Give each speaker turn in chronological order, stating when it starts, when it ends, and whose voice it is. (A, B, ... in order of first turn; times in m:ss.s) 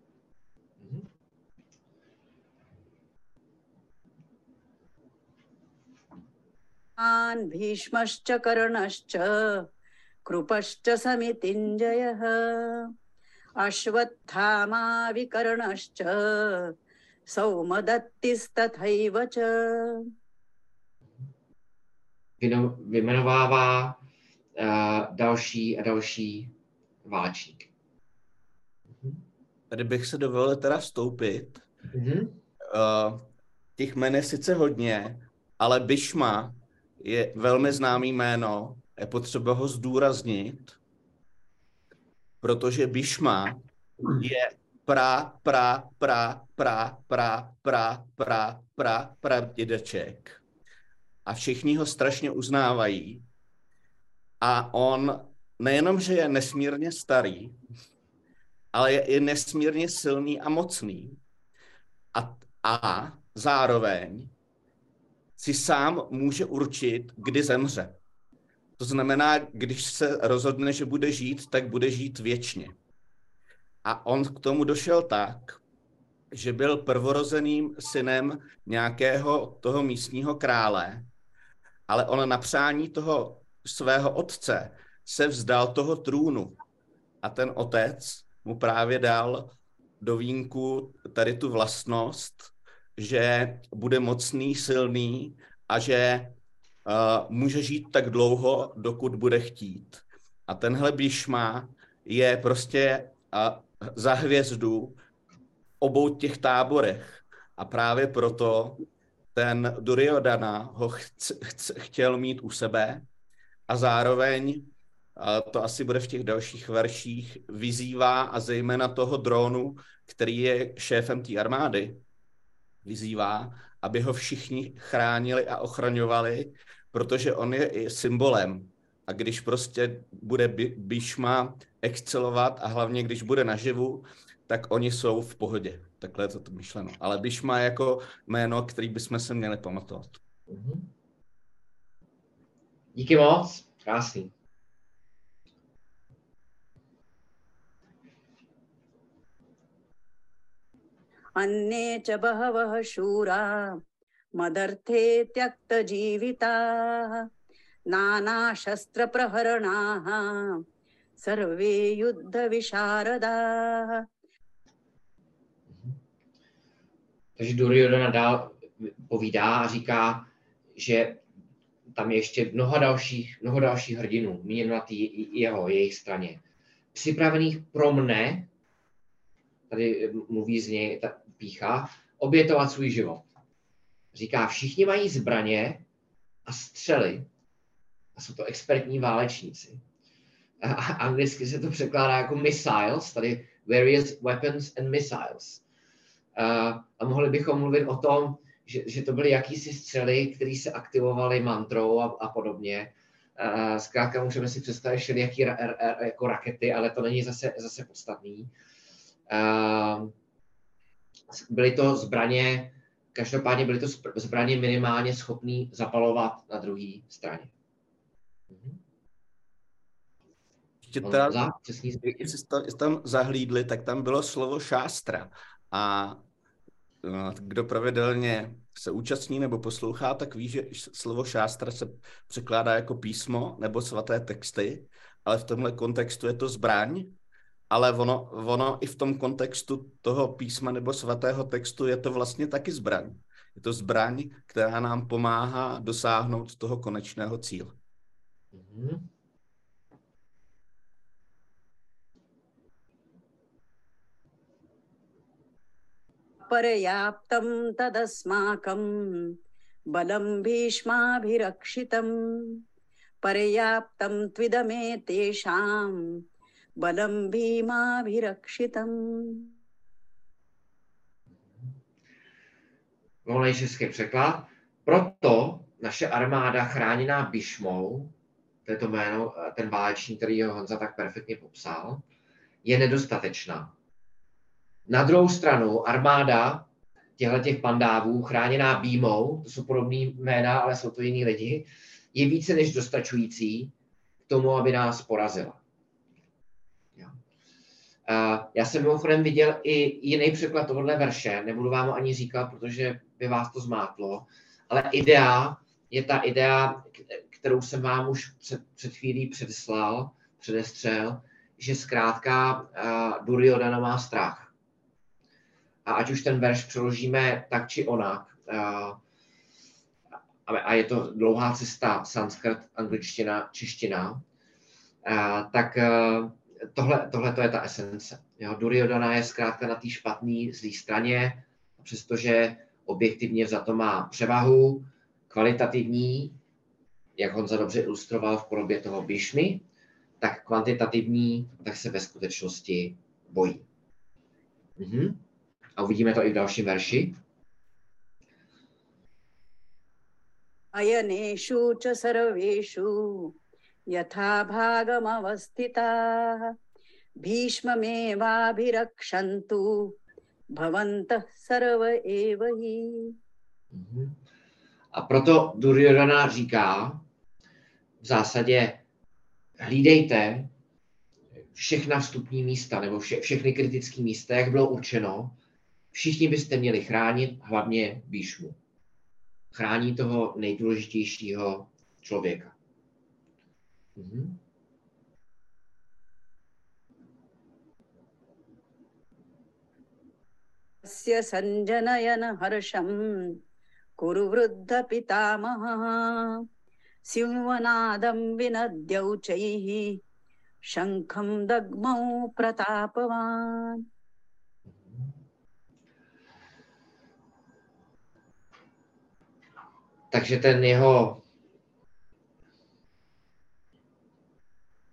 0:00.8-0:01.1 A
0:07.0-0:09.3 B
0:10.3-0:12.9 B
0:13.6-0:16.7 B
0:17.3-0:20.0 B
0:22.4-0:24.0 A
0:24.6-0:26.5 A
0:27.0-0:27.7 A
0:28.9-0:29.2 A
0:29.7-0:31.6 C
0:31.9-0:32.4 A
0:32.7-0:40.8 C
0:42.4-0:50.4 C
0:51.2-0:53.2 C
0:54.4-0:57.6 C
0:58.7-1:01.2 C
1:02.1-1:04.3 C
1:05.4-1:08.0 C
1:08.8-1:12.8 C
1:13.8-1:15.6 C
1:16.3-1:21.1 C
1:21.9-1:26.6 C
1:27.2-1:45.0 C
1:45.8-1:53.0 C
1:53.7-2:02.0 C
2:02.8-2:20.2 C
2:20.5-2:20.9 A
2:22.9-2:24.3 A
2:31.4-2:33.5 B
2:34.4-2:37.2 B
2:37.9-2:40.3 B
2:41.2-2:44.0 B
2:45.7-2:45.9 A
2:47.4-2:51.2 A
2:51.9-2:56.4 A
2:56.9-2:58.5 A
2:59.7-3:03.3 A
3:04.1-3:05.8 A
3:06.4-3:07.3 A
3:08.2-3:09.8 A
3:10.6-3:15.6 A
3:16.4-3:28.5 A
3:29.3-3:30.1 A
3:31.3-3:37.5 A
3:38.5-3:38.8 A
3:40.8-3:41.4 C
3:41.0-3:42.3 A
3:42.0-3:46.2 C
3:47.0-3:57.1 C
3:57.7-4:07.8 C
4:08.5-4:09.1 A
4:16.5-4:18.8 B
4:19.9-4:22.6 B
4:23.2-4:26.0 B
4:26.8-4:29.5 B
4:33.2-4:38.1 A
4:38.6-4:42.0 A
4:42.6-4:43.7 A
4:44.9-4:53.7 A
4:54.3-4:55.6 A
4:58.1-5:14.5 A
5:15.8-5:19.0 A
5:20.4-5:24.2 A
5:25.0-5:36.4 A
5:37.2-5:39.6 A
5:40.2-5:43.6 A
5:44.8-5:45.2 A
5:45.8-5:47.2 A
5:50.8-5:53.3 B
5:53.9-5:56.5 B
5:57.2-5:59.6 B
6:00.6-6:03.1 B
6:03.7-6:04.2 A
6:04.9-6:07.0 A
6:08.0-6:08.8 A
6:09.6-6:10.5 A
6:11.5-6:15.4 A
6:15.9-6:18.6 A
6:19.5-6:22.5 A
6:24.0-6:24.4 A
6:30.8-6:32.9 B
6:34.0-6:36.0 B
6:37.1-6:40.0 B
6:40.7-6:43.8 B
6:44.7-6:45.1 A
6:50.1-6:51.2 A